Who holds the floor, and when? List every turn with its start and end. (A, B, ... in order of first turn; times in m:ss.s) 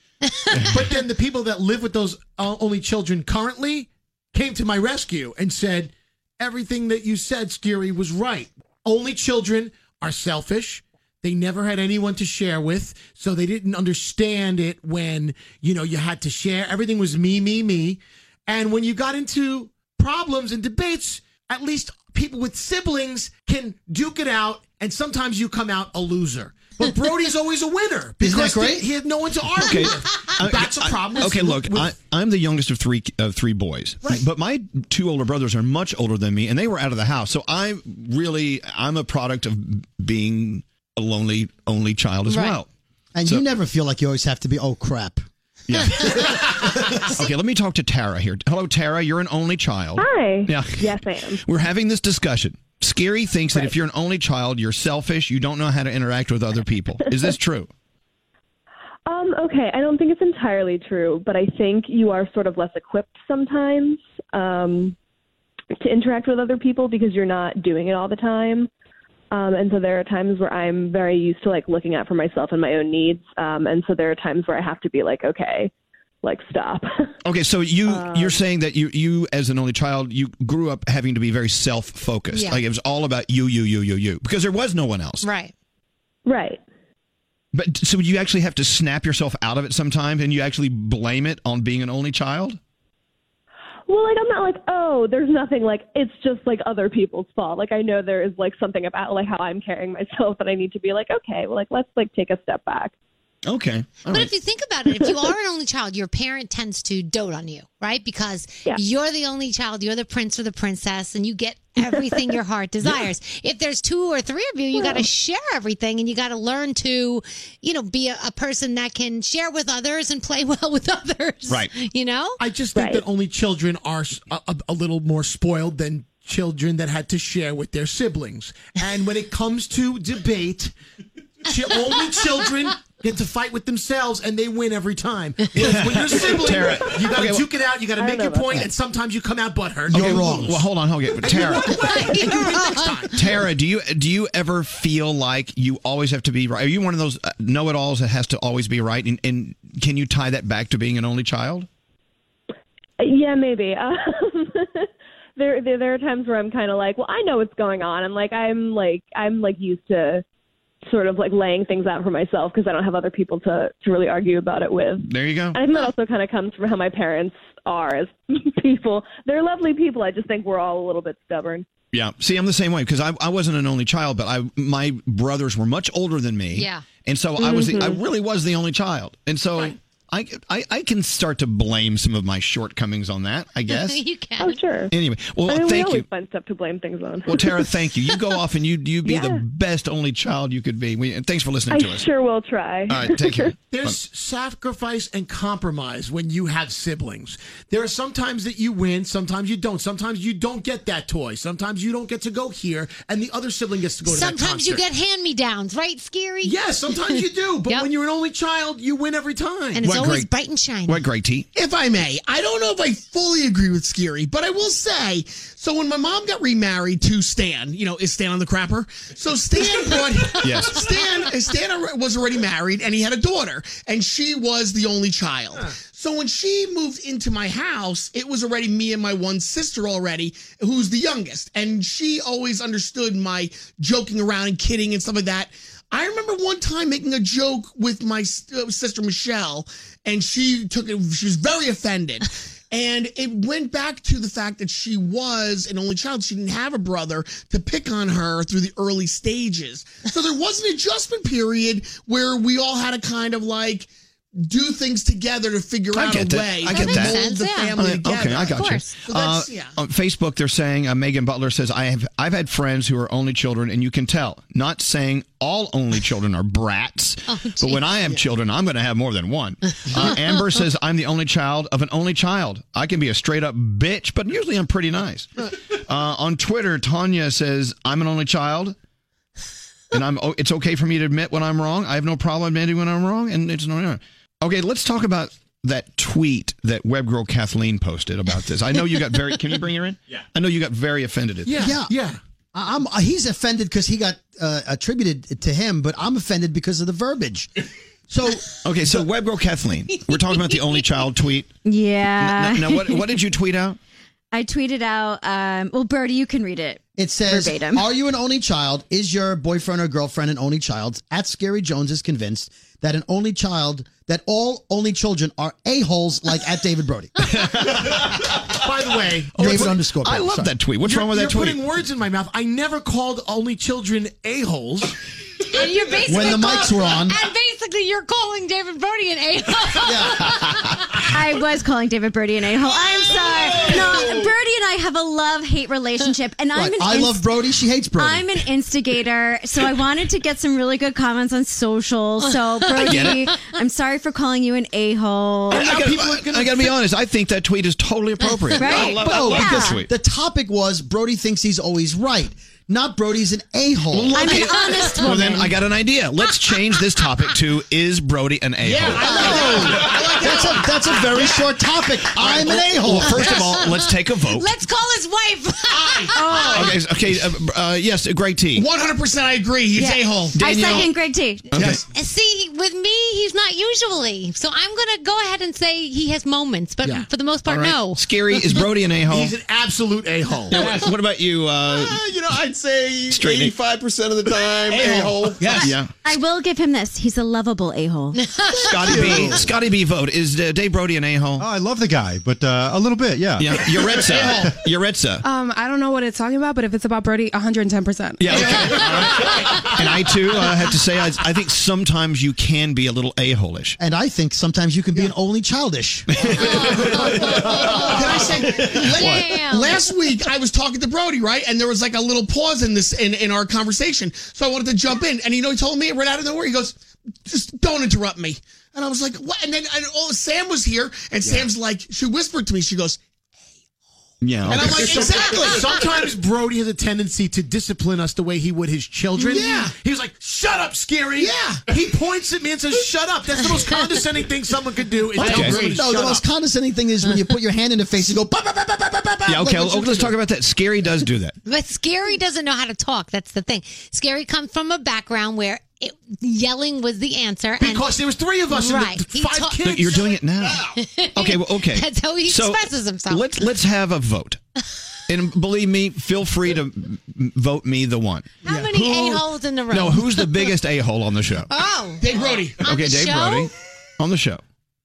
0:00.3-0:00.8 A
0:00.5-0:00.8 B
0:00.7-0:32.0 C
0:28.2-0:28.9 D
0:29.5-0:42.7 B
0:42.3-0:42.6 A
0:43.1-0:45.2 D
0:45.7-0:46.4 B
0:45.8-0:46.8 D
0:47.0-0:57.7 B
0:50.0-0:51.4 E
0:59.1-1:04.9 E
1:05.8-1:08.7 E
1:09.3-1:15.7 E
1:16.2-1:17.1 E
1:17.2-1:25.3 B
1:17.9-1:18.4 E
1:22.3-1:22.6 A
1:25.2-1:25.5 A
1:26.2-1:26.6 E
1:27.5-1:32.6 B
1:33.9-1:42.9 E
1:43.4-1:44.3 B
1:44.1-2:02.4 A
1:51.9-1:52.2 E
1:54.7-1:55.1 E
2:02.4-2:10.7 C
2:02.7-2:03.0 E
2:11.4-2:23.4 C
2:15.6-2:17.5 B
2:15.6-2:16.1 A
2:18.0-2:18.6 E
2:19.9-2:21.8 B
2:19.9-2:20.6 D
2:21.3-2:23.3 A
2:23.1-2:31.7 B
2:33.0-2:40.2 E
2:40.9-2:51.6 E
2:45.1-2:45.6 B
2:51.9-3:04.0 B
2:56.5-2:56.8 A
2:57.4-2:58.0 E
3:03.7-3:04.6 A
3:04.4-3:04.9 E
3:04.9-3:06.1 B
3:05.5-3:07.6 E
3:07.3-3:12.1 B
3:09.0-3:09.4 E
3:11.7-3:13.5 E
3:12.9-3:14.0 B
3:13.7-3:24.8 C
3:24.0-3:27.9 A
3:26.4-3:29.8 C
3:29.7-3:31.0 A
3:29.8-3:30.3 B
3:30.8-3:31.5 B
3:31.5-4:19.7 F
3:39.6-3:41.3 A
3:40.4-3:40.9 B
4:15.9-4:17.2 B
4:16.7-4:19.0 A
4:17.8-4:38.8 B
4:27.3-4:27.9 A
4:29.9-4:30.3 A
4:39.9-4:51.6 B
4:51.4-4:52.2 C
4:51.5-4:51.9 D
4:52.5-4:57.5 D
4:58.1-4:59.1 D
4:58.6-5:01.5 B
5:01.6-5:03.1 G
5:02.2-5:03.8 B
5:04.3-5:07.8 G
5:07.0-5:18.1 D
5:18.5-5:19.7 C
5:19.3-5:20.6 D
5:19.4-5:21.7 B
5:20.8-5:24.9 C
5:25.5-5:30.8 A
5:26.0-5:27.2 D
5:29.8-5:30.3 D
5:31.0-5:37.2 G
5:36.5-5:38.3 D
5:38.0-5:45.7 G
5:42.2-5:43.3 A
5:42.8-5:43.2 B
5:45.5-5:49.9 B
5:45.5-5:46.7 C
5:48.3-5:48.9 A
5:48.6-5:49.8 G
5:48.8-5:54.4 D
5:53.9-5:59.6 B
5:54.1-5:55.6 G
5:54.3-5:55.0 A
5:58.6-5:59.8 C
5:59.0-6:01.2 F
5:59.1-6:03.4 D
6:02.1-6:04.5 B
6:03.0-6:06.8 A
6:06.1-6:06.7 G
6:06.4-6:08.6 B
6:08.6-6:10.8 F
6:09.8-6:11.6 G
6:10.3-6:10.9 B
6:11.5-6:11.8 B
6:11.6-6:18.7 A
6:17.5-6:19.3 B
6:19.0-6:20.7 C
6:20.5-6:22.0 B
6:21.7-6:25.6 H
6:23.1-6:23.6 B
6:24.8-6:25.6 C
6:25.5-6:25.9 B
6:26.0-6:28.2 G
6:28.1-6:29.4 A
6:28.6-6:31.5 B
6:31.4-6:33.7 I
6:33.4-6:35.2 B
6:35.2-6:38.4 J
6:38.2-6:43.8 B
6:38.4-6:39.0 C
6:43.8-6:46.6 D
6:46.2-6:47.0 B
6:46.3-6:50.0 A
6:47.7-7:03.0 F
6:48.9-6:49.3 B
7:04.2-7:05.4 B
7:04.5-7:05.9 F
7:04.5-7:16.2 C
7:05.3-7:05.6 A
7:09.2-7:09.8 F
7:11.2-7:11.7 F
7:13.4-7:14.0 A
7:15.2-7:15.8 F
7:15.2-7:20.1 D
7:15.2-7:15.6 B
7:19.3-7:21.4 B
7:21.4-7:30.1 A
7:27.6-7:30.1 C
7:29.6-7:34.4 B
7:30.7-7:33.3 A
7:35.1-7:41.5 B
7:38.4-7:40.5 A
7:41.5-7:43.5 A
7:42.0-7:42.6 F
7:42.6-7:44.4 B